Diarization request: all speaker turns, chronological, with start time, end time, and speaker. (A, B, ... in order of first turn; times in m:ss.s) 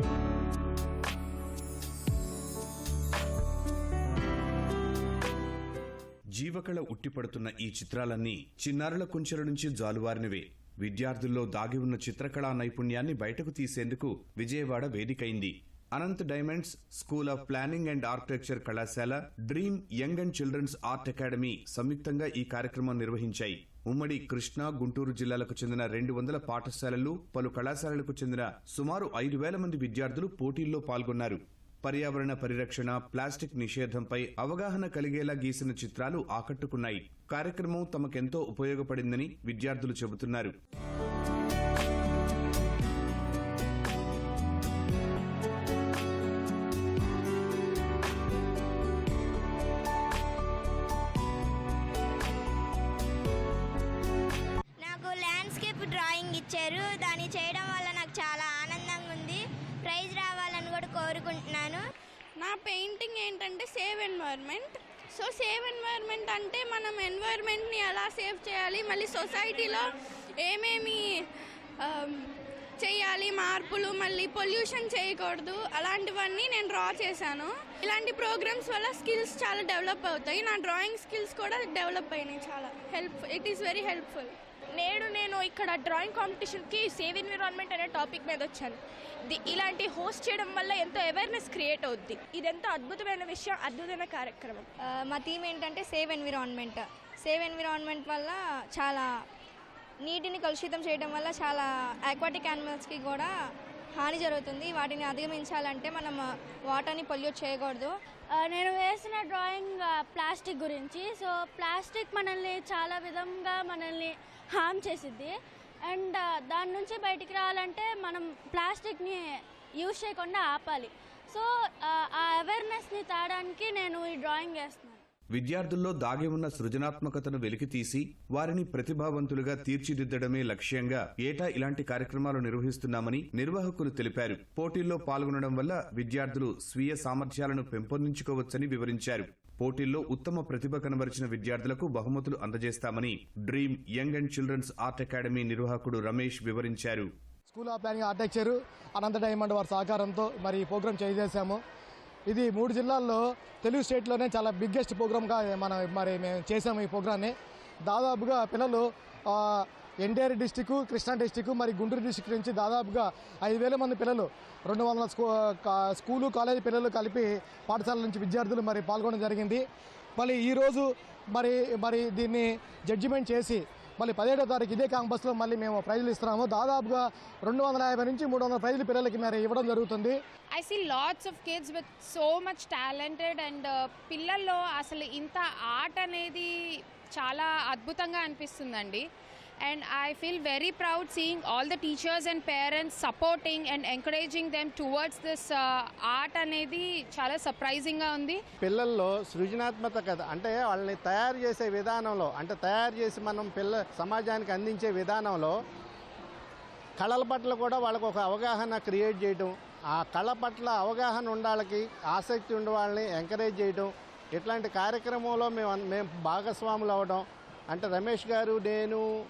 0:06.4-0:40.6 A
0:54.8-1:01.8 B
1:02.4-1:09.9 C
1:10.4-1:11.0 C
1:11.8-1:12.2 C
1:12.8-1:24.4 C
1:24.8-1:34.7 D
1:35.0-1:39.1 E
1:40.0-1:43.3 E
1:44.0-1:47.9 E
1:48.3-1:55.3 F
1:55.9-2:05.0 F
2:05.3-2:27.1 A
2:27.5-2:31.6 G
2:32.3-2:37.3 G
2:37.9-2:49.6 G
2:50.2-3:00.2 G
3:00.6-3:09.1 H
3:09.7-3:18.4 H
3:18.6-3:25.6 I
3:27.0-3:39.1 I